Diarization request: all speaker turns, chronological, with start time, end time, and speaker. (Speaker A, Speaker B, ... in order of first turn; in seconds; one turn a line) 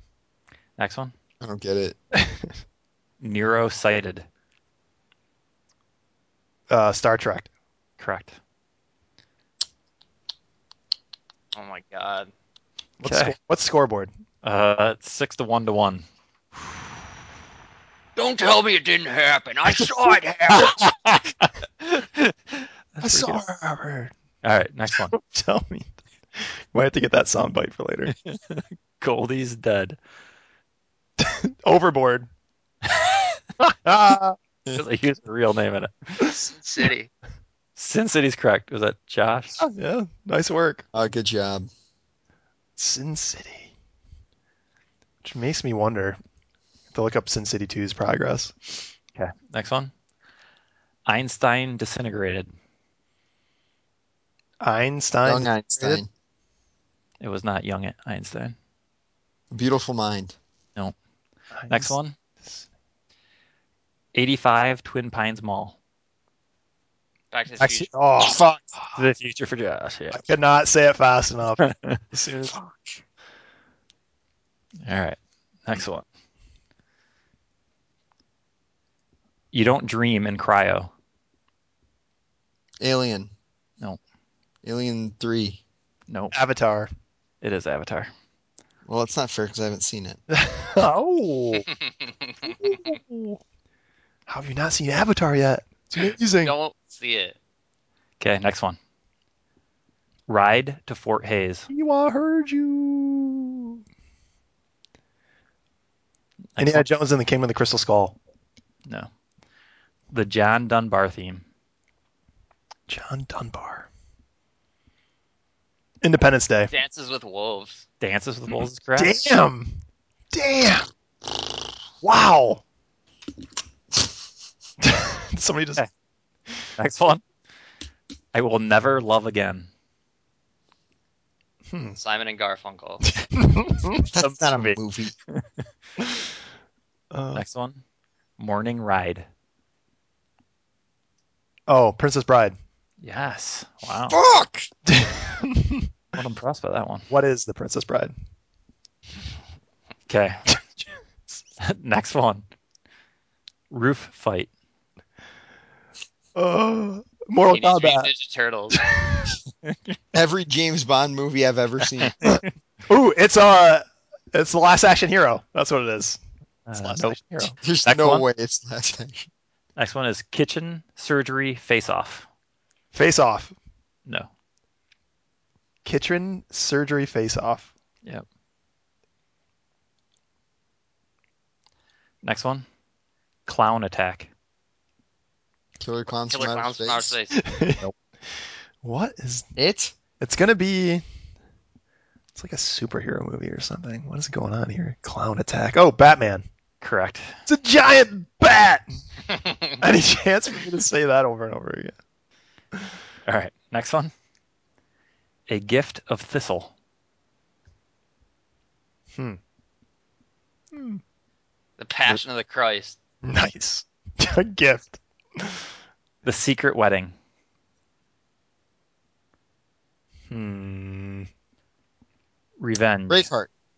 Speaker A: 0.8-1.1
Speaker B: 1.4-1.9
Speaker C: 2.1-2.5
Speaker A: 3.2-4.2
Speaker C: 6.7-7.5
Speaker A: 8.0-8.3
Speaker D: 11.5-12.3
Speaker A: 13.0-13.3
Speaker C: 13.0-14.1
Speaker A: 14.4-16.0
Speaker D: 18.1-20.8
Speaker C: 20.5-20.8
Speaker A: 21.9-22.3
Speaker A: 22.9-23.4
Speaker C: 23.0-24.1
Speaker A: 24.4-25.1
Speaker C: 25.1-28.1
Speaker A: 28.1-30.0
Speaker C: 31.2-32.3
Speaker C: 33.6-34.4
Speaker A: 34.7-36.3
Speaker D: 36.4-37.1
Speaker A: 37.8-39.6
Speaker C: 39.6-40.8
Speaker B: 40.9-41.7
Speaker C: 42.8-43.7
Speaker C: 45.2-46.2
Speaker C: 46.9-48.8
Speaker A: 49.1-49.9
Speaker A: 51.1-52.5
Speaker C: 54.6-56.0
Speaker B: 55.2-56.1
Speaker A: 57.2-58.5
Speaker B: 59.5-60.4
Speaker C: 61.5-62.6
Speaker A: 61.7-62.1
Speaker A: 64.1-65.8
Speaker D: 67.3-67.9
Speaker C: 67.6-68.4
Speaker B: 68.2-68.7
Speaker A: 69.0-70.2
Speaker C: 70.1-72.5
Speaker A: 71.6-72.0
Speaker A: 74.8-76.0
Speaker A: 79.5-80.9
Speaker B: 82.8-83.3
Speaker B: 84.6-85.6
Speaker A: 86.1-86.3
Speaker C: 86.3-86.9
Speaker A: 87.4-88.1
Speaker B: 88.8-90.2
Speaker C: 90.3-91.7
Speaker C: 92.4-93.4
Speaker C: 94.3-96.5
Speaker D: 96.4-97.3
Speaker A: 98.2-98.8
Speaker A: 100.3-101.7
Speaker C: 101.7-103.8
Speaker A: 106.6-106.9
Speaker C: 106.6-108.2
Speaker A: 110.1-111.4
Speaker C: 112.9-113.9
Speaker C: 116.0-116.7
Speaker D: 116.7-117.8
Speaker A: 118.0-119.2
Speaker C: 119.0-119.8
Speaker C: 120.3-120.9
Speaker C: 122.0-122.6
Speaker C: 124.8-125.8
Speaker A: 126.8-127.2
Speaker A: 128.3-129.7
Speaker C: 131.7-132.0
Speaker D: 131.9-133.1
Speaker C: 133.2-134.1
Speaker B: 134.1-135.1
Speaker A: 134.2-135.6
Speaker C: 137.1-137.4
Speaker A: 137.3-137.8
Speaker A: 138.4-139.2
Speaker C: 141.7-142.5
Speaker A: 143.0-144.2
Speaker B: 144.1-144.7
Speaker C: 144.9-145.9
Speaker A: 146.1-147.1
Speaker C: 147.1-148.1
Speaker A: 150.1-150.4
Speaker A: 151.6-152.4
Speaker A: 153.7-154.5
Speaker C: 156.3-158.1
Speaker D: 157.5-158.8
Speaker C: 158.7-159.4
Speaker B: 160.1-162.2
Speaker A: 162.2-162.5
Speaker C: 162.2-166.2
Speaker A: 166.7-168.2
Speaker C: 166.7-167.5
Speaker B: 167.6-169.3
Speaker A: 169.8-172.3
Speaker C: 172.9-173.5
Speaker C: 175.8-177.7
Speaker A: 182.2-182.7
Speaker A: 183.4-184.3
Speaker B: 185.8-187.2
Speaker D: 186.3-187.3
Speaker C: 187.3-187.9
Speaker C: 188.8-189.5
Speaker B: 189.6-189.9
Speaker C: 190.2-191.0
Speaker C: 192.3-196.4
Speaker A: 196.8-197.4
Speaker C: 197.5-198.8
Speaker C: 199.8-201.9
Speaker A: 203.2-204.1
Speaker A: 205.5-206.7
Speaker C: 210.7-211.0
Speaker D: 211.8-213.0
Speaker C: 213.2-215.7
Speaker A: 216.2-217.1
Speaker C: 220.3-221.3
Speaker A: 222.6-223.3
Speaker B: 223.1-223.5